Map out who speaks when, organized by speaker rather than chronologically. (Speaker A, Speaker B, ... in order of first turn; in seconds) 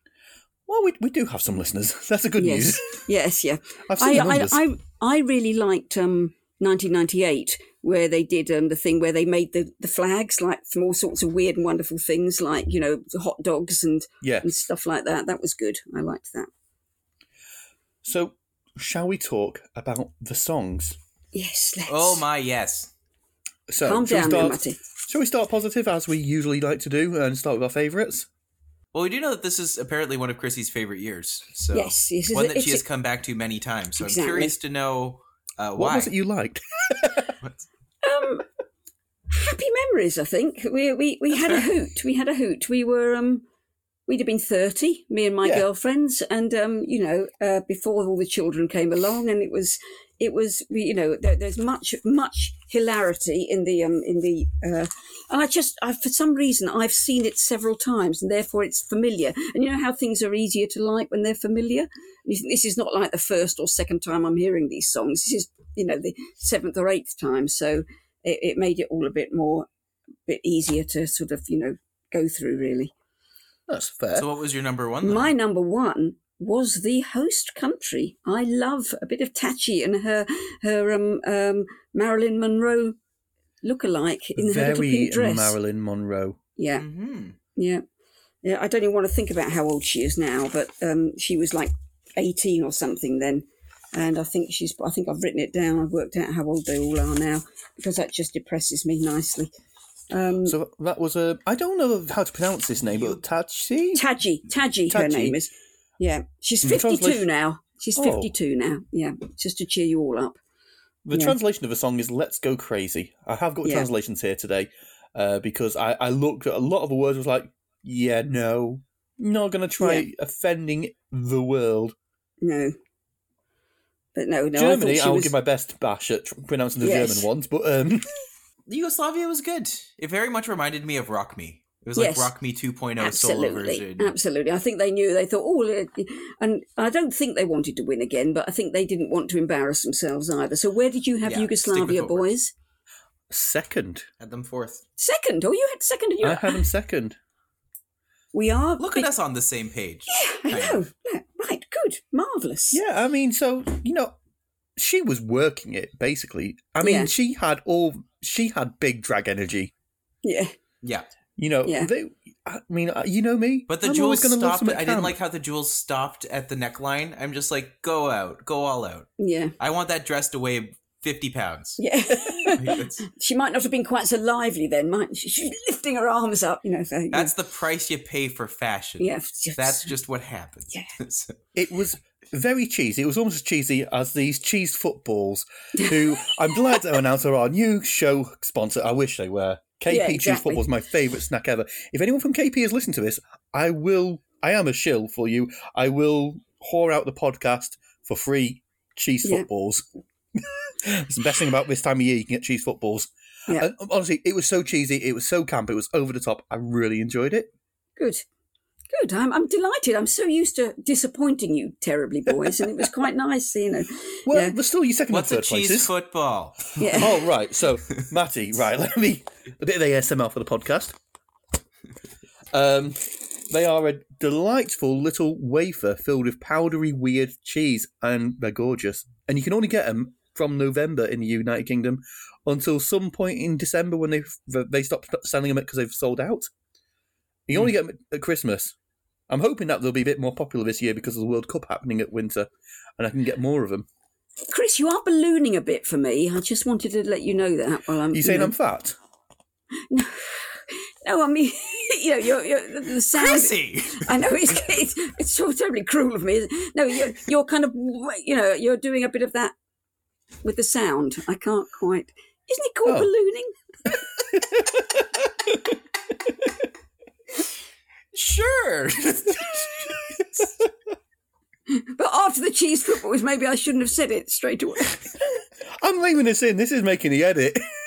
Speaker A: 0.7-3.0, 3.9-4.6, 14.2-14.5, 18.0-21.0, 23.7-28.3, 35.8-37.4, 73.7-74.3, 84.4-86.4, 100.5-104.0, 104.9-105.4, 106.6-107.3, 108.0-108.3, 111.1-122.0, 124.5-128.1, 143.3-144.1, 146.2-147.2, 152.7-154.1, 154.8-159.7, 161.4-165.2, 172.3-172.6, 181.6-199.8, 200.4-207.5, 214.3-215.9, 216.9-221.0, 222.5-236.5, 237.5-238.8, 239.3-243.9, 248.1-249.0, 264.3-265.1, 275.8-277.7
Speaker B: 2.4-16.5, 21.3-22.2, 23.8-24.8, 31.7-32.8, 34.0-34.6, 38.0-38.5, 39.3-43.4, 44.1-69.7, 70.3-72.9, 75.0-83.0, 83.6-85.6, 86.6-86.8, 87.6-87.8, 88.4-99.5, 100.1-100.6, 103.9-110.4, 119.8-120.1, 122.4-122.8, 124.2-125.3, 126.8-127.3, 132.0-132.3, 133.0-142.5, 145.0-146.6, 148.3-149.1, 150.1-152.8, 156.8-157.1, 160.2-160.5, 169.2-169.6, 171.8-177.3, 179.0-179.9, 189.9-190.6, 208.0-208.2, 208.9-214.6, 216.8-217.1, 244.5-248.5, 249.9-259.5, 260.4-263.5, 271.7-275.2
Speaker C: 21.9-22.9, 28.9-36.1, 74.2-75.3, 86.8-87.4, 128.7-134.1, 141.2-142.3, 144.2-144.8, 148.8-150.9, 160.8-161.1, 163.7-171.8, 172.6-173.1, 177.1-181.3, 215.1-217.1, 253.1-254.4, 268.1-270.5